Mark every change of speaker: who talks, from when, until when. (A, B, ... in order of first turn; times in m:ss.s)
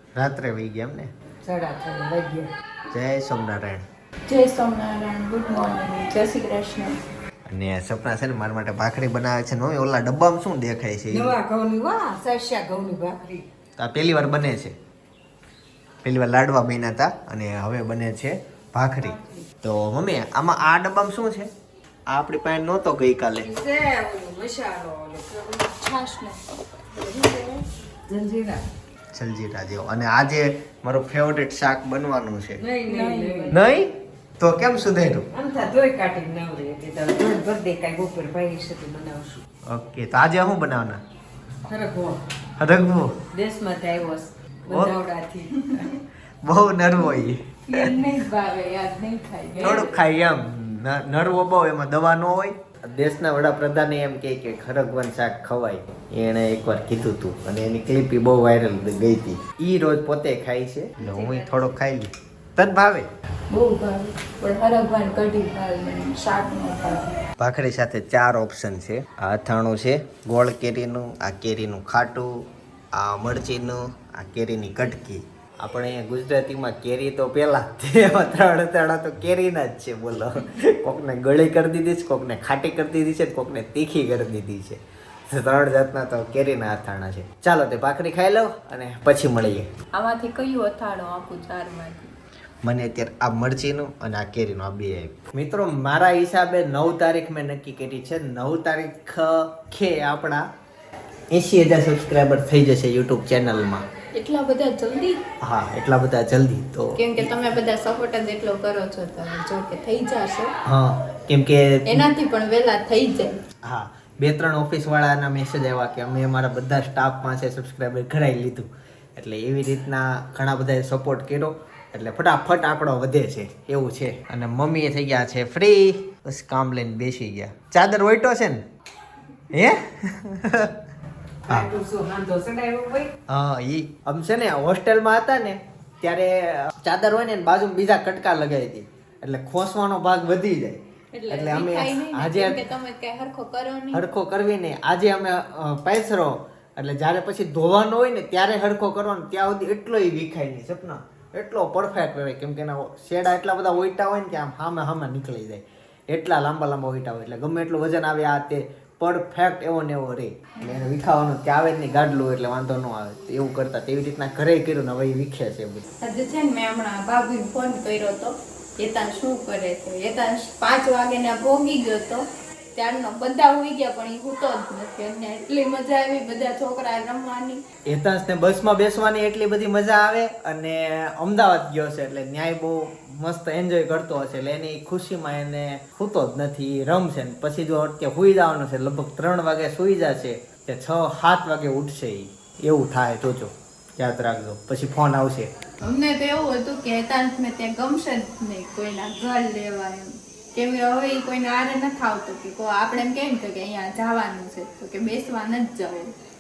0:00.2-0:01.1 A
0:01.4-0:02.5 B
0:02.9-0:03.9 A
0:04.3-0:07.0 C
0:07.5-0:11.3 A
0:11.1-0:13.5 B
0:13.8-0:14.8 A
0:16.0-0:21.5 A
0:19.0-0:19.4 B
0:22.1-0:23.5 A
0:23.4-0:25.8 B
0:25.8-0:26.4 C
0:26.9-0:28.6 B
0:29.1-0:32.6 A
0:32.6-0:33.6 B
0:32.9-0:33.6 C
0:33.5-0:33.9 A
0:34.4-0:35.3 A
0:35.3-0:39.4 B
0:39.7-0:41.0 A
0:41.7-0:42.2 B
0:42.6-0:43.2 A
0:43.3-0:45.9 B
0:44.7-0:45.0 A
0:46.4-0:47.4 A
0:47.7-0:50.0 C
0:49.6-1:03.1 A
1:01.0-1:01.6 C
1:03.5-1:07.2 C
1:07.4-1:29.7 A
1:29.9-1:32.1 C
1:32.6-1:40.5 A
1:41.3-1:43.8 A
1:44.1-1:45.2 C
1:45.4-1:47.3 A
1:47.0-1:50.5 C
1:50.7-1:52.0 A
1:51.9-1:53.4 C
1:53.6-2:08.6 A
2:09.5-2:10.8 A
2:11.5-2:13.1 B
2:13.3-2:22.6 A
2:21.1-2:24.0 C
2:23.9-2:45.8 A
2:46.0-2:57.6 C
2:57.9-3:15.5 A
3:15.8-3:26.1 C